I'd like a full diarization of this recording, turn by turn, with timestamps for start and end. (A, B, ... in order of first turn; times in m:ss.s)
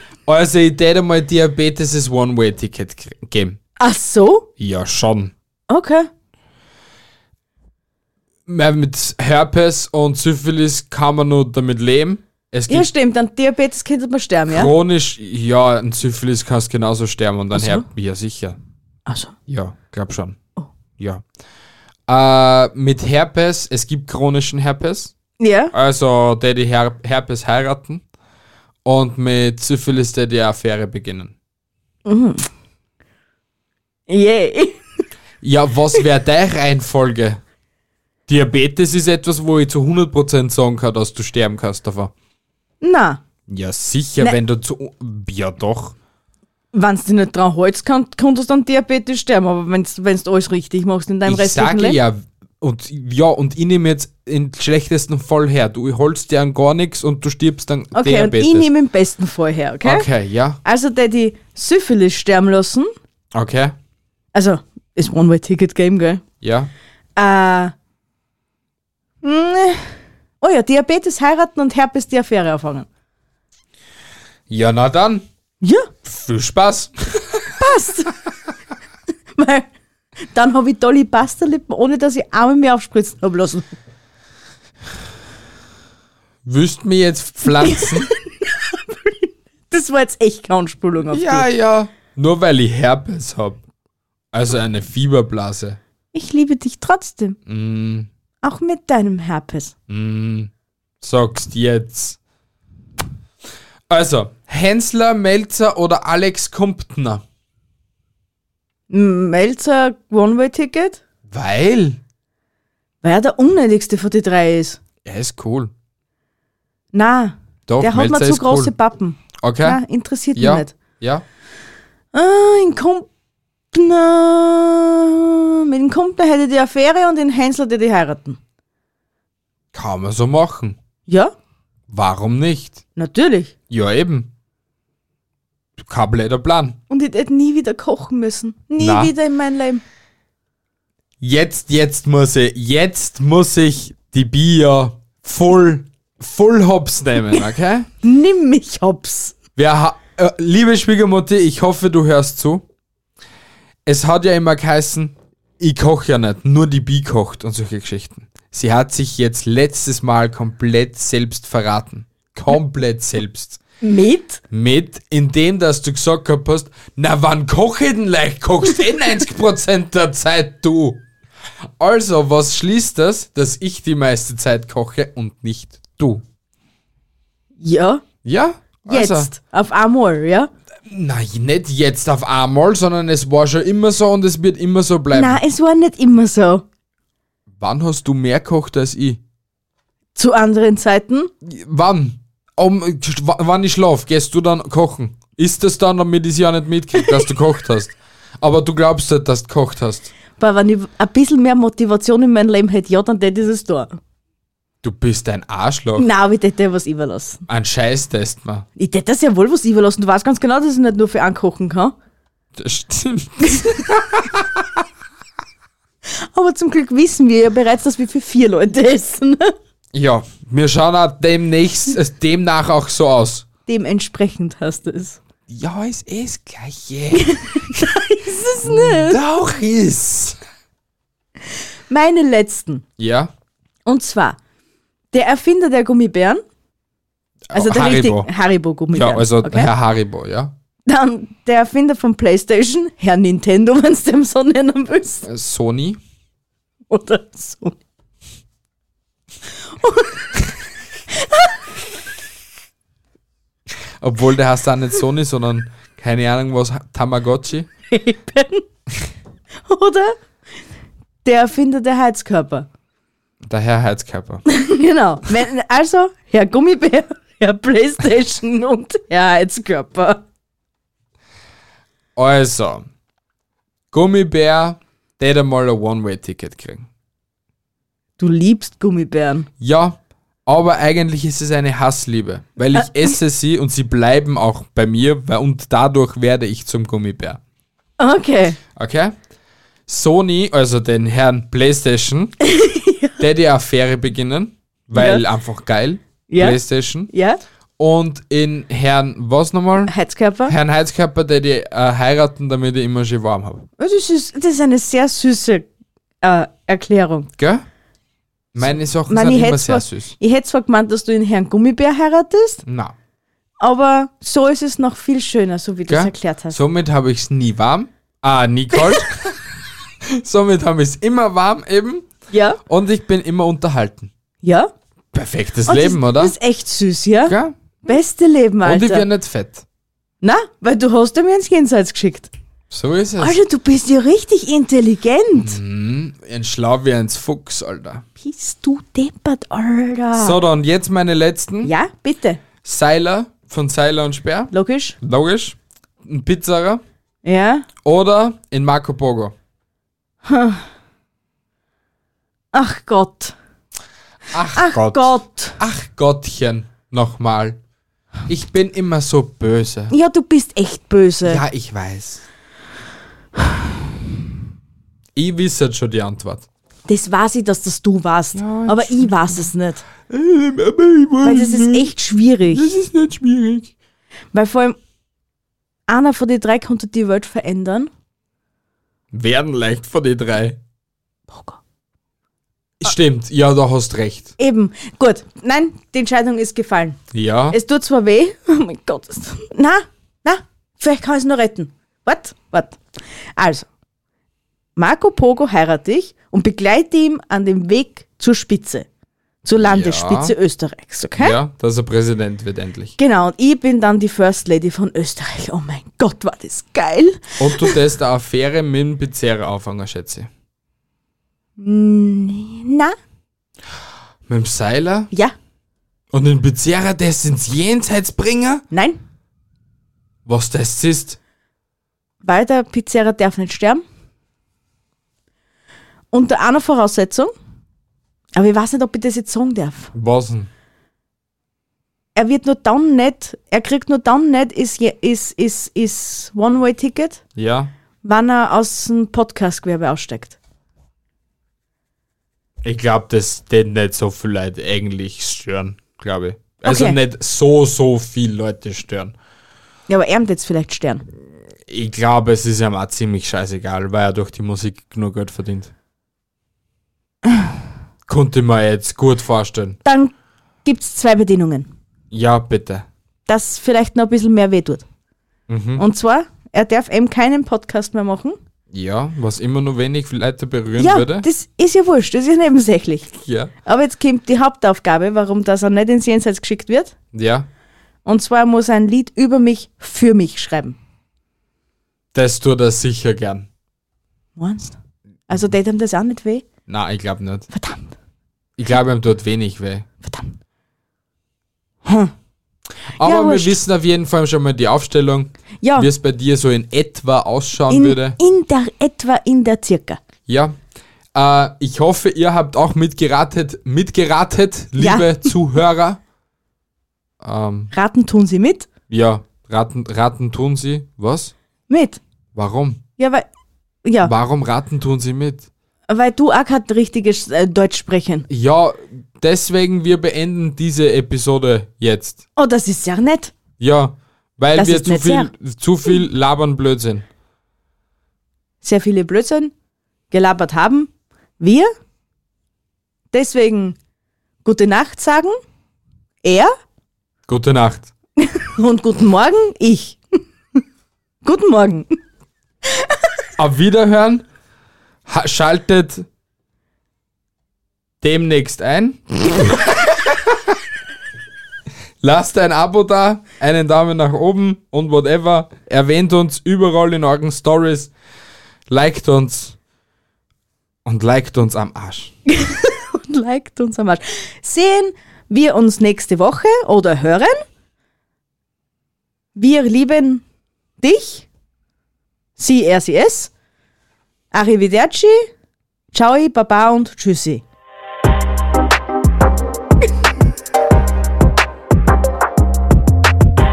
0:00.3-0:03.6 A
0:03.8-0:04.5 B
0:04.6-0:05.3 A
0:05.7-0:06.1 B
0:08.5-0:12.9 A
0:12.7-0:14.7 B
0:14.5-0:18.6 A
0:17.5-0:17.9 B
0:19.1-0:19.3 B
0:19.5-0:20.4 A
0:21.0-0:21.2 A
0:22.1-0:25.1 A
0:25.4-0:25.7 B
0:25.7-0:28.0 A
0:28.8-0:31.3 A
0:32.1-0:32.5 B
0:34.1-0:34.8 B
0:35.4-0:37.4 A
0:38.3-0:42.1 A
0:42.8-0:43.2 B
0:43.5-0:46.0 A
0:46.7-0:52.0 B
0:51.2-0:58.7 A
0:57.9-1:00.1 B
0:59.8-1:00.6 A
1:00.6-1:02.9 B
1:03.3-1:03.8 A
1:04.3-1:06.2 B
1:06.4-1:06.7 A
1:07.2-1:07.7 B
1:09.2-1:12.9 B
1:14.5-1:15.3 A
1:15.6-1:15.9 B
1:16.0-1:17.5 A
1:17.6-1:18.1 B
1:19.4-1:19.7 B
1:20.3-1:23.7 B
1:26.4-1:28.1 A
1:27.5-1:31.5 B
1:31.1-1:33.6 A
1:34.3-1:35.8 A
1:36.1-1:37.4 B
1:37.5-1:38.1 A
1:38.4-1:39.7 B
1:39.9-1:40.5 A
1:41.0-1:42.2 A
1:43.9-1:47.2 A
1:48.9-1:51.0 B
1:51.3-1:52.0 A
1:53.0-1:54.8 B
1:55.0-1:55.7 A
1:56.9-2:00.8 B
1:57.7-1:58.7 A
1:59.4-1:59.8 A
2:00.4-2:01.2 A
2:02.1-2:03.1 B
2:03.7-2:08.4 B
2:09.7-2:10.8 A
2:11.1-2:11.3 B
2:11.9-2:12.8 A
2:13.0-2:13.5 B
2:13.7-2:14.3 A
2:15.8-2:16.8 A
2:16.9-2:19.8 B
2:18.8-2:19.1 A
2:21.2-2:27.9 A
2:28.0-2:29.4 B
2:29.6-2:32.6 A
2:33.9-2:43.6 A
2:43.8-2:44.4 B
2:44.5-2:51.0 A
2:51.8-2:56.2 A
2:57.6-2:58.0 B
2:58.2-2:59.3 A
2:58.9-3:00.5 B
3:00.9-3:05.4 A
3:05.1-3:06.6 B
3:07.6-3:09.2 A
3:10.2-3:11.3 B
3:11.4-3:20.1 A
3:20.4-3:24.0 B
3:24.8-3:26.1 A
3:26.0-3:27.5 B
3:27.5-3:28.7 A
3:28.8-3:32.0 B
3:32.6-3:34.8 A
3:36.3-3:39.5 B
3:39.9-3:43.5 A
3:43.7-3:45.2 B
3:45.5-3:47.8 A
3:47.1-3:49.2 B
3:48.6-3:50.4 A
3:51.9-3:52.8 B
3:53.0-3:53.3 A
3:53.9-3:54.4 B
3:55.1-3:56.4 B
3:57.5-3:58.3 A
3:57.5-3:59.7 B
3:58.9-4:00.5 A
4:00.9-4:05.3 B
4:05.3-4:06.0 A
4:06.9-4:07.8 B
4:09.8-4:10.3 B
4:11.1-4:11.6 B
4:14.0-4:17.7 A
4:17.9-4:18.6 B
4:19.7-4:20.2 B
4:21.2-4:22.7 B
4:23.4-4:24.4 A
4:24.5-4:30.2 B
4:32.2-4:32.9 A
4:33.9-4:36.9 A
4:38.2-4:39.5 B
4:39.6-4:47.4 A
4:42.8-4:43.0 B
4:48.0-4:48.6 B
4:48.8-4:49.2 A
4:49.9-4:52.4 A
4:52.5-4:53.2 B
4:53.2-4:57.1 A
4:55.0-4:55.2 B
4:56.3-4:57.4 B
4:57.8-4:59.9 A
4:59.9-5:00.5 B
5:00.4-5:03.7 A
5:03.8-5:05.7 B
5:06.2-5:07.3 B
5:07.4-5:07.6 A
5:08.5-5:10.1 A
5:08.7-5:12.6 B
5:12.6-5:13.0 A
5:13.6-5:16.6 B
5:15.9-5:19.4 A
5:20.1-5:22.1 A
5:22.3-5:22.6 B
5:22.7-5:24.1 A
5:24.4-5:24.7 B
5:25.1-5:26.4 A
5:25.7-5:29.1 B
5:27.3-5:27.6 A
5:28.6-5:29.6 A
5:30.2-5:32.3 B
5:32.7-5:33.4 A
5:33.2-5:35.6 B
5:35.4-5:38.0 A
5:38.2-5:40.4 B
5:40.2-5:41.8 A
5:41.6-5:42.4 B
5:42.6-5:46.8 A
5:44.5-5:45.0 B
5:47.2-5:47.7 B
5:47.8-5:49.4 A
5:50.3-5:50.6 B
5:52.5-5:53.4 B
5:54.3-5:57.6 A
5:54.5-5:55.6 B
5:58.3-5:59.9 A
5:59.9-6:01.4 B
6:01.2-6:02.2 A
6:05.2-6:06.4 A
6:06.9-6:09.8 B
6:08.4-6:09.5 A
6:10.1-6:11.9 A
6:11.2-6:12.7 B
6:12.5-6:13.7 A
6:14.3-6:14.8 B
6:15.9-6:17.9 B
6:19.1-6:20.6 A
6:21.3-6:21.6 B
6:22.8-6:24.3 A
6:24.4-6:27.0 B
6:27.1-6:27.6 A
6:27.5-6:32.8 B
6:33.4-6:33.7 B
6:34.8-6:38.9 B
6:39.4-6:41.4 B
6:39.6-6:40.4 A
6:41.2-6:42.9 A
6:43.0-6:47.8 B
6:47.4-6:50.3 A
6:51.6-6:53.0 B
6:54.3-6:55.1 A
6:56.1-6:58.6 A
6:58.7-6:59.0 B
7:00.2-7:01.2 A
7:02.2-7:03.8 B
7:06.1-7:07.3 B
7:08.4-7:09.9 B
7:09.9-7:10.5 A
7:12.2-7:17.2 B
7:17.4-7:17.7 A
7:18.0-7:20.4 B
7:22.6-7:29.1 A
7:26.6-7:27.0 B
7:29.9-7:31.0 B
7:31.7-7:35.7 A
7:38.1-7:39.8 A
7:39.8-7:40.1 B
7:40.6-7:41.7 B
7:42.1-7:42.9 A
7:43.3-7:44.8 B
7:45.5-7:45.8 A
7:45.8-7:48.4 B
7:48.7-7:51.3 A
7:50.8-7:53.1 B
7:53.2-7:53.5 A
7:53.6-7:56.9 B
7:57.1-7:57.5 A
7:58.0-8:00.8 B
8:02.1-8:03.5 A
8:04.4-8:04.8 B
8:05.3-8:06.5 B
8:06.7-8:07.5 A
8:07.5-8:07.9 B
8:08.6-8:09.9 A
8:10.0-8:10.4 B
8:11.8-8:12.1 B
8:12.9-8:18.2 A
8:13.0-8:13.6 B
8:15.6-8:15.9 B
8:17.7-8:20.0 B
8:20.3-8:20.6 A
8:21.1-8:26.0 A
8:24.8-8:25.3 B
8:27.2-8:27.7 A
8:27.7-8:28.7 B
8:28.9-8:31.3 A
8:31.7-8:32.0 B
8:32.4-8:32.8 A
8:33.0-8:33.3 B
8:33.8-8:34.1 B
8:34.0-8:35.5 A
8:35.9-8:38.3 B
8:38.3-8:42.2 A
8:42.4-8:43.3 B
8:43.6-8:47.1 A
8:44.6-8:45.3 B
8:48.6-8:49.5 B
8:50.1-8:51.7 B
8:53.1-8:53.8 B
8:54.4-8:55.4 B
8:56.2-8:56.5 B
8:57.3-8:57.9 A
8:58.2-9:00.0 B
9:01.2-9:02.0 B
9:03.4-9:04.2 A
9:05.1-9:06.1 A
9:08.0-9:10.6 A
9:12.0-9:17.9 A
9:18.7-9:19.6 A
9:20.8-9:22.1 A
9:22.3-9:27.4 B
9:29.4-9:30.2 B
9:30.8-9:31.3 B
9:32.4-9:33.3 B
9:34.3-9:35.3 B
9:35.9-9:37.4 B